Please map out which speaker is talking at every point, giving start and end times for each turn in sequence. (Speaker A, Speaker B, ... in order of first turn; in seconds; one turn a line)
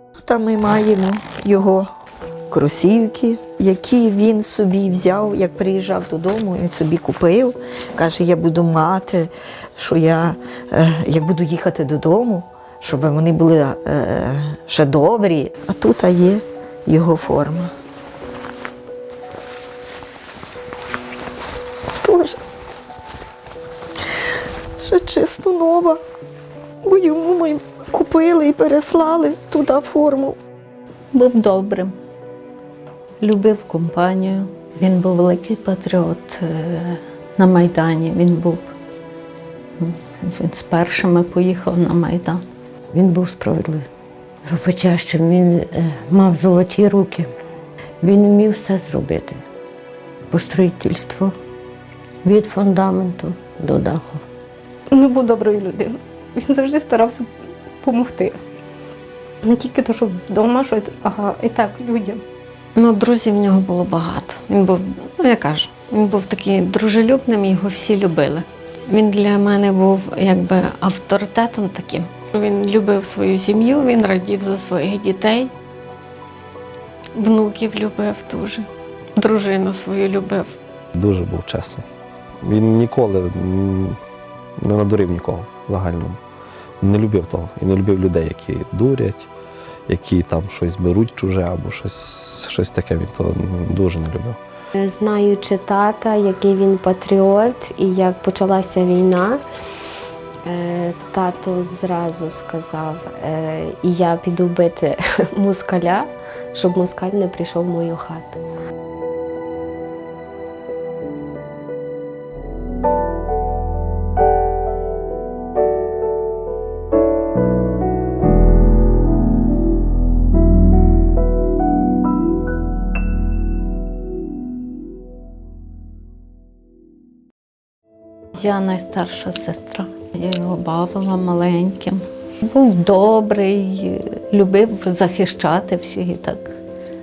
Speaker A: 0.2-1.9
Speaker A: 2.5-17.7
Speaker A: 22.0-22.4
Speaker A: 24.8-26.0
Speaker A: 26.8-30.4
Speaker B: 31.1-31.9
Speaker B: 33.2-38.7
Speaker B: 39.8-42.4
Speaker C: 42.9-43.9
Speaker C: 44.5-47.3
Speaker C: 48.0-49.4
Speaker C: 50.3-51.3
Speaker C: 52.2-54.2
Speaker D: 54.9-57.3
Speaker D: 57.8-58.4
Speaker D: 59.4-62.2
Speaker E: 62.8-75.5
Speaker E: 77.2-80.5
Speaker F: 81.0-81.8
Speaker F: 82.4-84.0
Speaker F: 84.6-86.2
Speaker F: 86.8-89.3
Speaker F: 89.9-94.4
Speaker G: 94.7-99.4
Speaker G: 100.4-108.4
Speaker B: 128.3-136.6